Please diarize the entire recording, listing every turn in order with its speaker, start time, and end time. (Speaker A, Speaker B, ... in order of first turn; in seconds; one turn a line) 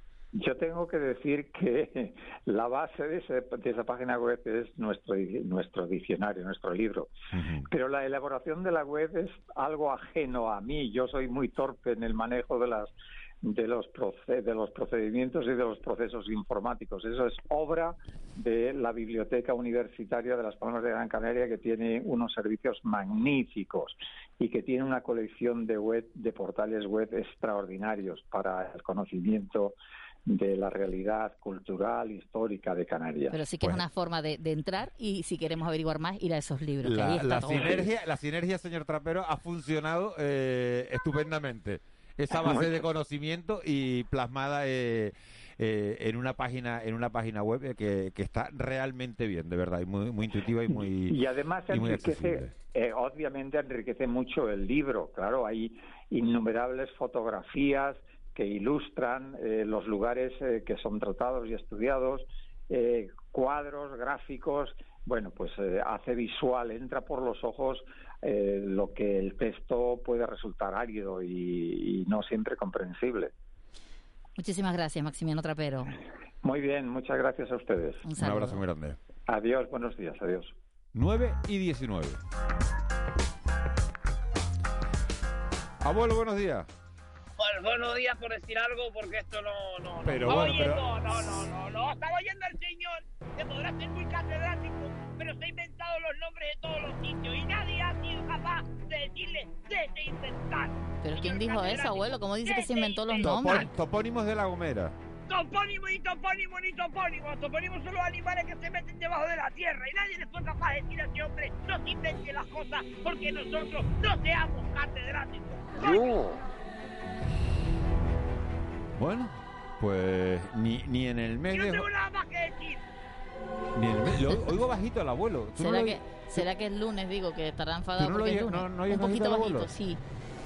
Speaker A: 0.3-7.1
Speaker B: 7.3-7.7
Speaker A: 7.7-33.4
Speaker C: 33.3-37.9
Speaker B: 36.8-51.2
Speaker A: 42.3-42.8
Speaker A: 50.8-73.3
Speaker B: 51.7-52.5
Speaker C: 74.4-76.0
Speaker A: 76.4-78.0
Speaker C: 78.0-78.6
Speaker B: 78.2-79.0
Speaker A: 79.3-80.6
Speaker B: 80.9-82.2
Speaker B: 85.8-86.7
Speaker D: 87.4-103.6
Speaker B: 90.0-90.9
Speaker C: 101.0-103.7
Speaker B: 103.2-105.0
Speaker D: 105.3-116.4
Speaker B: 119.0-121.9
Speaker D: 121.5-122.8
Speaker B: 123.8-126.5
Speaker C: 125.6-130.0
Speaker B: 128.0-129.7